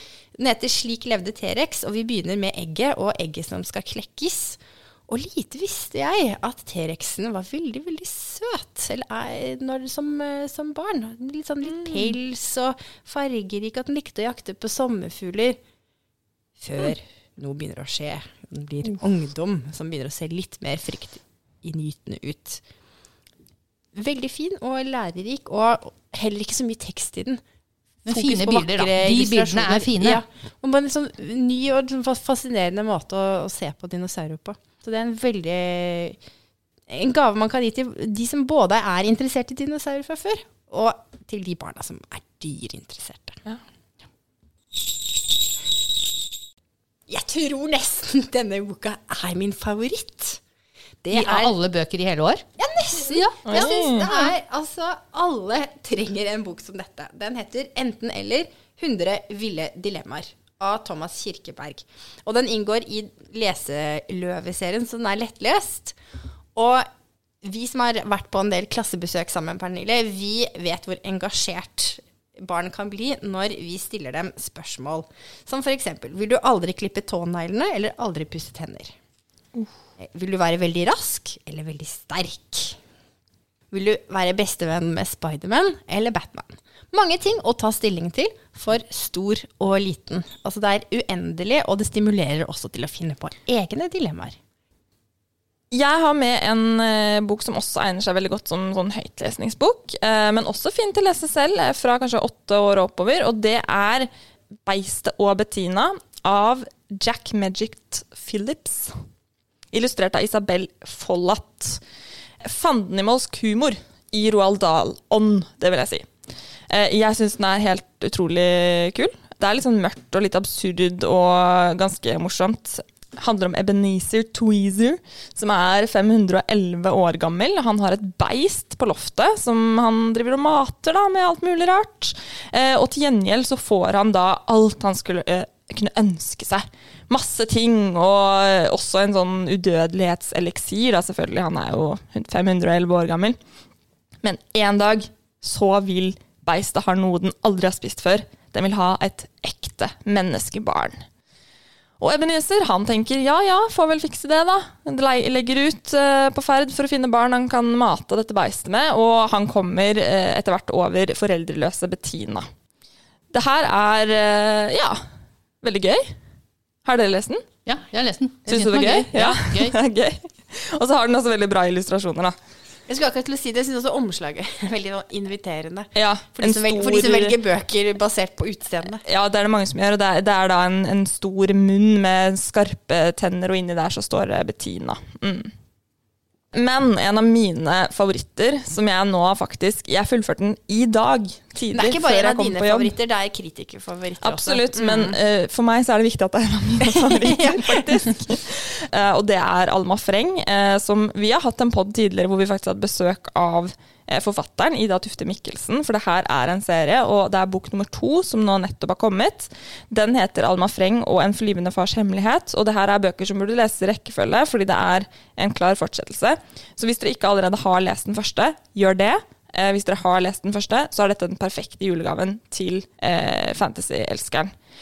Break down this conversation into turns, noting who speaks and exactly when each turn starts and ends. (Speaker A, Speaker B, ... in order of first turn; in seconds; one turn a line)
Speaker A: 0.4-15.6
Speaker A: 16.6-22.6
Speaker A: 23.9-27.4
Speaker B: 28.1-30.2
Speaker A: 28.1-36.2
Speaker A: 36.9-43.4
Speaker A: 47.1-50.4
Speaker A: 51.0-51.5
Speaker B: 51.1-54.4
Speaker A: 52.6-66.0
Speaker C: 53.5-54.1
Speaker A: 66.5-66.9
Speaker A: 67.4-78.9
Speaker A: 80.0-82.8
Speaker A: 83.7-94.4
Speaker C: 95.7-104.1
Speaker C: 104.7-109.0
Speaker C: 109.7-111.8
Speaker C: 112.4-116.1
Speaker C: 116.7-143.4
Speaker C: 144.2-151.0
Speaker C: 152.0-162.5
Speaker C: 163.3-165.0
Speaker C: 165.6-166.1
Speaker C: 166.8-167.4
Speaker B: 167.7-169.7
Speaker C: 168.5-172.3
Speaker A: 172.9-179.0
Speaker C: 175.9-177.4
Speaker C: 179.0-185.5
Speaker C: 186.5-192.9
Speaker A: 191.7-195.2
Speaker C: 194.2-224.5
Speaker A: 196.8-198.2